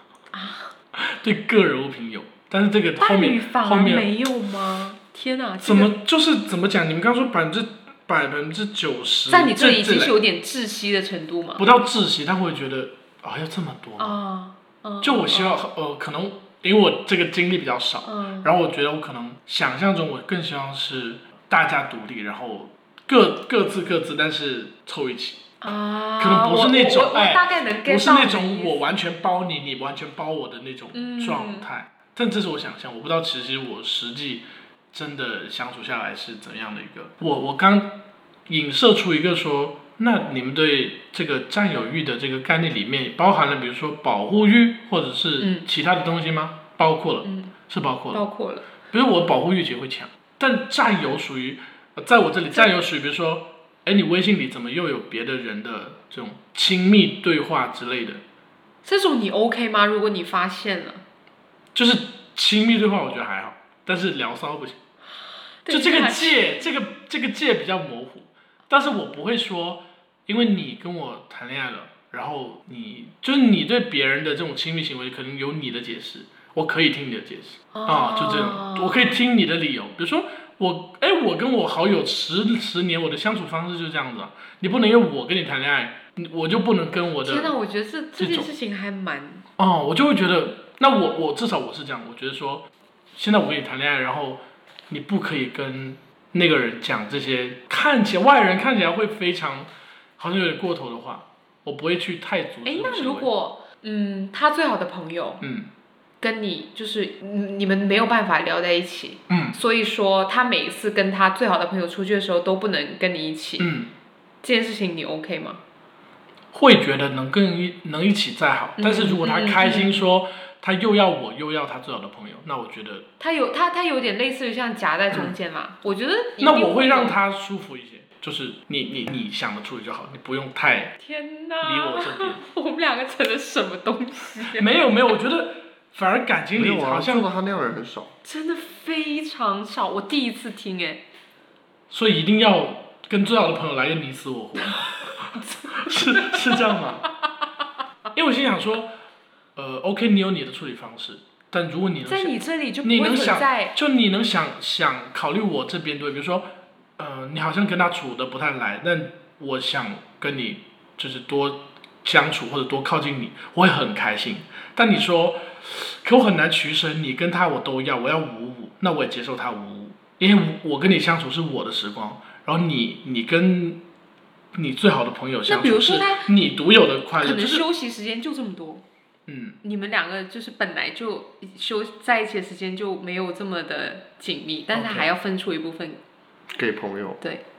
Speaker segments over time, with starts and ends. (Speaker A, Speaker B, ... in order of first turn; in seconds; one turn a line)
Speaker A: 0.3-0.7
Speaker B: 0.9-4.1
Speaker A: 3.0-5.9
Speaker B: 5.6-10.2
Speaker A: 9.3-11.6
Speaker B: 11.6-14.2
Speaker A: 14.0-15.6
Speaker B: 15.0-25.4
Speaker A: 18.1-18.5
Speaker A: 25.6-28.8
Speaker B: 26.2-48.2
Speaker A: 30.9-31.7
Speaker A: 45.4-45.7
Speaker A: 47.2-47.5
Speaker A: 48.1-48.6
Speaker B: 48.9-58.2
Speaker A: 58.9-61.0
Speaker B: 61.8-64.8
Speaker A: 65.6-66.5
Speaker B: 65.7-87.5
Speaker A: 77.7-79.0
Speaker A: 87.2-89.5
Speaker B: 88.2-88.5
Speaker B: 89.6-92.6
Speaker B: 93.2-103.3
Speaker A: 102.7-105.4
Speaker B: 105.4-105.7
Speaker A: 106.2-113.7
Speaker B: 109.3-109.6
Speaker B: 113.6-113.9
Speaker A: 114.4-115.6
Speaker B: 116.5-123.1
Speaker A: 118.8-120.0
Speaker A: 123.2-127.2
Speaker B: 126.4-130.9
Speaker A: 131.0-134.7
Speaker B: 131.6-132.4
Speaker B: 134.5-137.3
Speaker C: 136.6-138.1
Speaker A: 138.2-141.0
Speaker B: 141.9-147.1
Speaker A: 145.4-146.6
Speaker B: 148.1-148.9
Speaker B: 149.6-156.5
Speaker A: 152.1-153.7
Speaker B: 157.0-173.8
Speaker B: 174.5-177.6
Speaker A: 175.5-176.3
Speaker A: 177.2-178.8
Speaker B: 179.3-179.6
Speaker A: 179.6-186.0
Speaker B: 184.7-185.1
Speaker C: 186.5-187.2